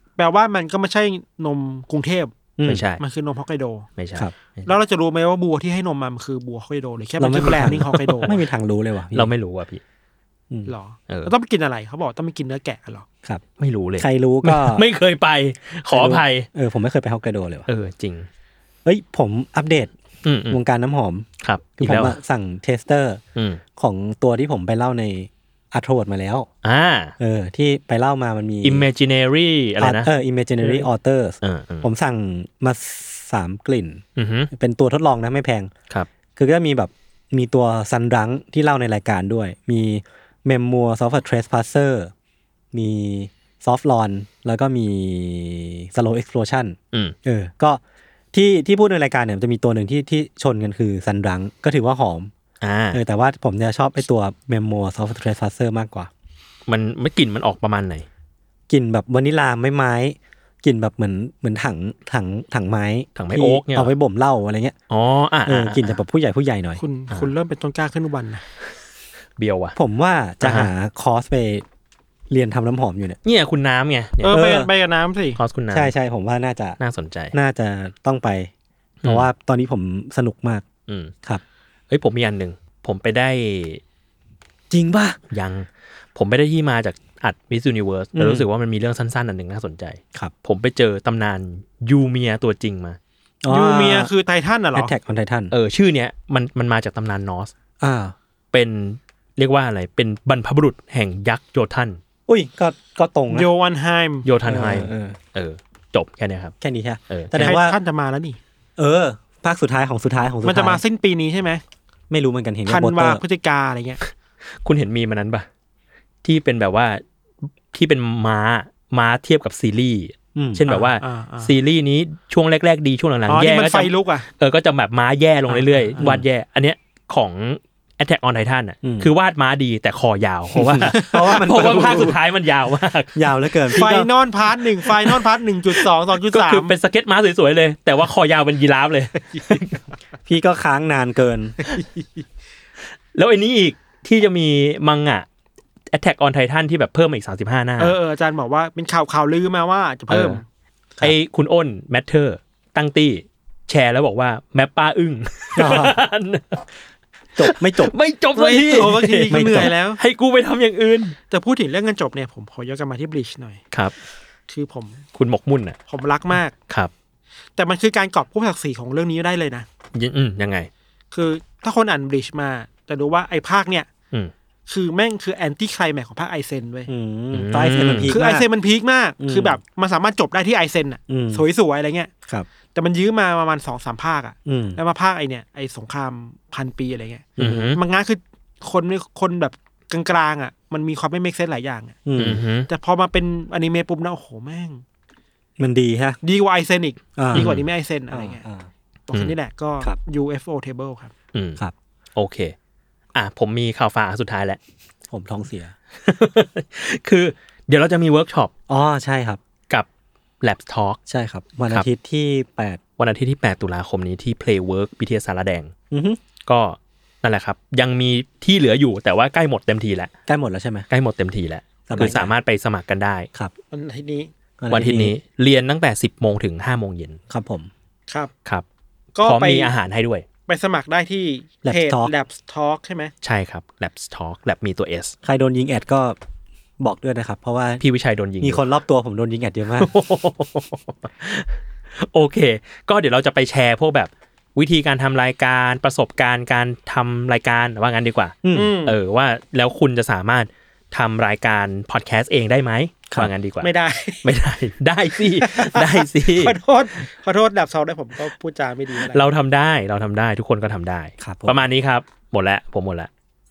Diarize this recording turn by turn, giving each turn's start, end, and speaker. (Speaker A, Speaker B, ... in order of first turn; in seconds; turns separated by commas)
Speaker A: 0.2-2.3, Speaker B: 2.6-2.8, Speaker C: 2.6-3.0, Speaker A: 3.0-3.9, Speaker C: 4.0-4.7, Speaker A: 4.7-8.3, Speaker B: 7.2-9.3, Speaker C: 7.6-8.4, Speaker C: 9.1-9.8, Speaker A: 10.7-13.1, Speaker C: 13.6-16.5, Speaker B: 14.0-14.8, Speaker B: 15.9-17.6, Speaker C: 17.7-18.3, Speaker B: 18.8-19.9, Speaker C: 20.2-20.6, Speaker B: 20.5-21.2, Speaker C: 21.4-22.2, Speaker B: 21.8-23.2, Speaker C: 23.3-23.6, Speaker B: 23.8-26.5, Speaker C: 26.6-27.1, Speaker B: 27.2-28.9, Speaker C: 28.6-30.1, Speaker B: 29.8-35.7, Speaker C: 31.4-31.9, Speaker C: 34.1-34.5, Speaker B: 36.4-42.1, Speaker B: 42.7-47.8, Speaker B: 48.3-52.3, Speaker C: 52.6-53.0, Speaker B: 52.9-56.1, Speaker C: 56.7-58.0, Speaker B: 58.7-64.7, Speaker C: 63.1-63.9, Speaker C: 64.9-65.9, Speaker B: 65.5-66.8, Speaker A: 66.8-68.4, Speaker C: 69.4-69.8, Speaker B: 69.7-71.6, Speaker C: 70.4-70.7, Speaker B: 72.3-73.2, Speaker C: 73.2-74.4, Speaker A: 74.2-75.4, Speaker B: 74.3-74.7, Speaker C: 75.4-75.9, Speaker B: 75.7-76.8, Speaker C: 76.8-77.3, Speaker B: 77.3-78.5, Speaker B: 79.0-80.6, Speaker C: 80.9-81.1, Speaker C: 81.9-83.8, Speaker B: 84.7-85.2, Speaker C: 85.3-93.0, Speaker B: 88.1-88.5, Speaker B: 93.4-94.1, Speaker A: 93.5-94.9, Speaker B: 94.7-95.5, Speaker C: 95.5-97.5, Speaker B: 97.8-98.1, Speaker C: 98.5-102.0, Speaker B: 102.3-103.5, Speaker A: 103.3-104.2, Speaker C: 104.2-106.5, Speaker B: 104.5-105.2, Speaker B: 106.6-107.8, Speaker C: 107.1-107.5, Speaker A: 107.4-108.4, Speaker B: 108.8-110.8, Speaker A: 110.4-111.6, Speaker B: 112.1-113.2, Speaker A: 112.7-114.0, Speaker C: 114.6-115.5, Speaker C: 116.2-117.0, Speaker C: 117.7-133.2, Speaker B: 120.3-120.6, Speaker A: 120.7-121.5, Speaker A: 123.3-124.3, Speaker A: 125.5-126.1, Speaker B: 128.8-129.1, Speaker B: 130.5-132.2, Speaker B: 133.1-134.1, Speaker A: 133.7-136.7, Speaker C: 136.3-139.7, Speaker A: 139.3-139.6, Speaker B: 140.3-141.6, Speaker C: 143.1-145.2, Speaker C: 145.9-147.9, Speaker A: 147.8-150.4, Speaker C: 150.1-150.4, Speaker C: 151.0-156.6, Speaker B: 155.6-156.0, Speaker B: 157.4-157.9, Speaker C: 157.4-161.2, Speaker A: 158.3-160.0, Speaker B: 159.3-159.7, Speaker A: 161.3-163.6, Speaker A: 164.5-165.0, Speaker C: 165.1-165.8, Speaker A: 165.9-166.5, Speaker A: 167.6-169.7, Speaker C: 169.9-170.7, Speaker A: 171.1-173.9, Speaker A: 174.7-176.9, Speaker B: 176.9-178.4, Speaker C: 177.3-178.1, Speaker A: 178.1-182.1, Speaker B: 179.2-179.6, Speaker B: 181.1-181.4, Speaker A: 182.7-192.0, Speaker B: 184.4-184.8, Speaker B: 187.4-187.8, Speaker C: 187.4-187.8, Speaker B: 192.1-192.4, Speaker C: 192.2-192.7, Speaker A: 192.7-194.8, Speaker B: 195.6-196.2, Speaker A: 196.2-198.4, Speaker B: 197.2-197.6, Speaker C: 197.3-197.6, Speaker B: 198.1-198.7, Speaker A: 199.1-201.1, Speaker C: 201.3-201.6, Speaker C: 202.2-202.5, Speaker C: 203.1-204.6, Speaker B: 205.1-205.7, Speaker C: 206.0-208.5, Speaker B: 208.7-209.4, Speaker C: 210.4-211.0, Speaker B: 211.1-212.8, Speaker C: 213.0-215.7, Speaker B: 215.9-216.2, Speaker C: 216.4-220.1, Speaker B: 220.3-220.9, Speaker C: 220.9-223.3, Speaker B: 221.9-222.3, Speaker A: 223.7-224.3, Speaker B: 224.6-225.1, Speaker C: 224.7-227.2, Speaker B: 227.3-227.7, Speaker A: 229.1-229.7, Speaker C: 229.2-230.2, Speaker A: 230.5-233.1, Speaker B: 231.6-232.1, Speaker C: 233.2-235.1, Speaker B: 235.2-236.2, Speaker B: 236.8-237.8, Speaker C: 237.8-238.6, Speaker B: 238.4-239.9, Speaker C: 239.8-253.7, Speaker B: 248.4-248.7, Speaker A: 248.5-249.0, Speaker A: 253.6-254.2, Speaker C: 254.2-256.5, Speaker A: 255.3-259.2, Speaker C: 259.1-263.1, Speaker B: 261.2-261.6